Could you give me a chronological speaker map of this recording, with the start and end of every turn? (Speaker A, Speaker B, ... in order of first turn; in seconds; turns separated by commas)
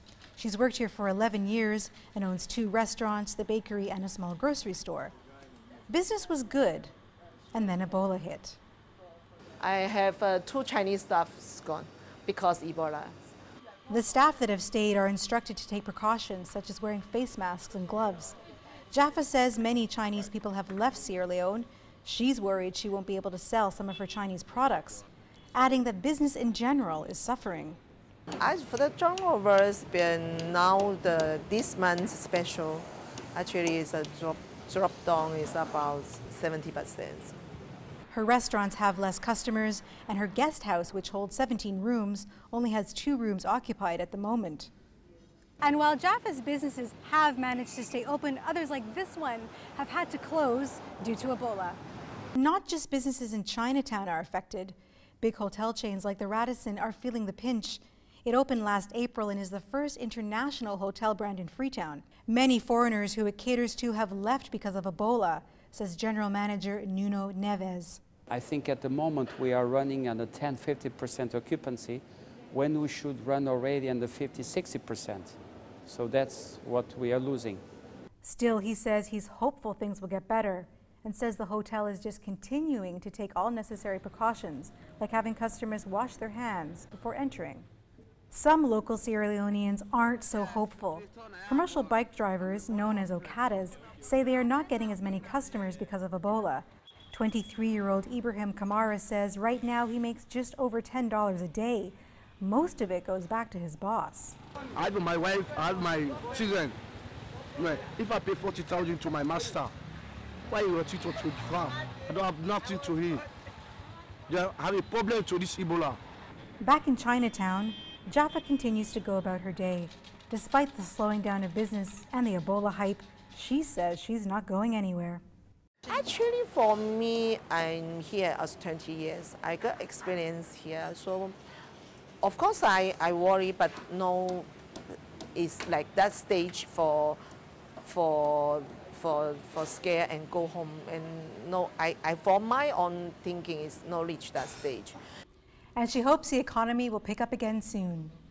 Speaker A: 0.4-5.1, Speaker A: 5.9-6.9, Speaker A: 7.5-8.6, Speaker B: 9.6-13.2, Speaker A: 13.9-18.4, Speaker A: 18.9-25.0, Speaker A: 25.6-27.8, Speaker B: 28.4-37.4, Speaker A: 38.1-44.7, Speaker A: 45.6-51.8, Speaker A: 52.4-68.0, Speaker C: 68.3-77.6, Speaker A: 78.2-87.7, Speaker A: 88.3-104.4, Speaker D: 104.8-106.8, Speaker D: 107.6-109.8, Speaker D: 110.5-113.2, Speaker D: 114.3-116.0, Speaker A: 116.6-125.2, Speaker B: 125.9-131.4, Speaker B: 132.2-134.5, Speaker B: 135.3-137.2, Speaker B: 137.8-145.0, Speaker A: 145.8-148.2